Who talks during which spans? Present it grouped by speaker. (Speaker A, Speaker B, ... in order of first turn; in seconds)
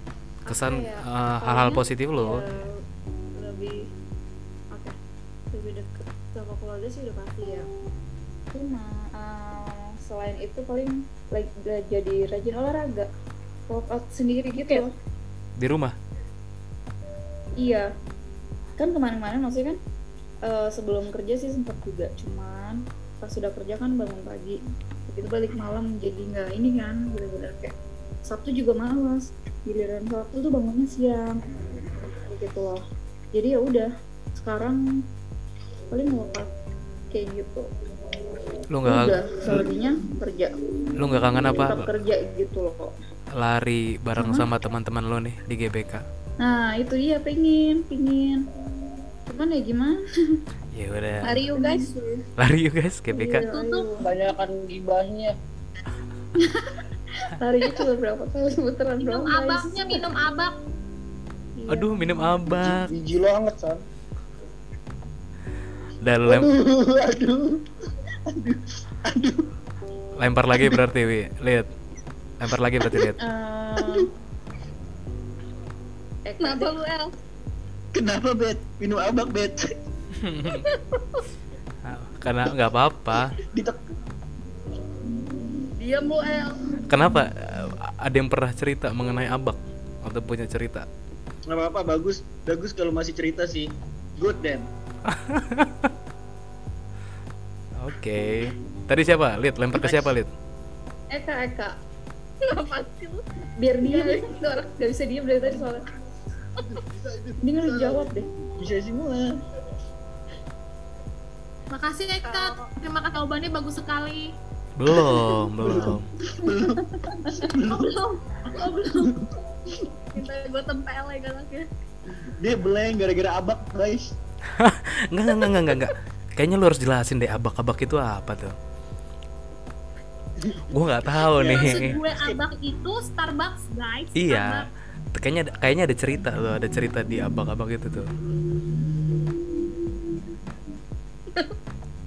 Speaker A: 0.4-2.8, 3.4-3.9, 5.5-7.7, 8.5-13.1, 13.7-14.9, 17.6-17.9, 18.8-19.8, 20.4-27.7, 28.2-31.4, 32.3-34.8, 35.9-36.5, 37.1-37.7, 38.8-40.5, 41.5-42.9, 44.1-44.5, 46.4-48.4, 49.3-50.0, 51.3-51.9, 53.1-54.0, 56.4-60.1, 61.6-62.7, 73.2-74.1, 76.2-76.7, 101.1-101.8, 103.6-105.8, 107.4-108.3
Speaker B: 0.5-2.4, 15.6-15.9, 38.7-39.1, 41.0-41.9, 43.3-46.0, 50.7-51.3, 52.4-53.4, 61.7-62.9, 66.0-66.5, 70.2-71.7, 72.4-73.2, 80.2-80.7, 81.8-83.4, 86.9-90.8, 95.1-95.9, 97.8-100.3, 114.8-116.0, 124.5-128.5, 130.7-132.0, 134.2-138.1
Speaker C: 14.6-14.8, 51.2-52.1, 76.4-77.1, 80.5-81.2, 85.8-86.6, 102.4-103.2, 103.8-104.5, 112.2-112.7, 117.1-119.1, 120.1-121.7
Speaker D: 54.0-55.3, 62.7-63.8, 66.2-67.6, 68.3-69.5, 77.9-79.7, 83.4-83.8, 91.5-93.7, 94.2-94.7, 99.8-100.2, 106.6-109.3, 114.9-117.9, 119.0-119.3, 122.1-124.1, 130.4-132.4
Speaker E: 59.0-60.5, 111.7-114.3, 131.4-134.7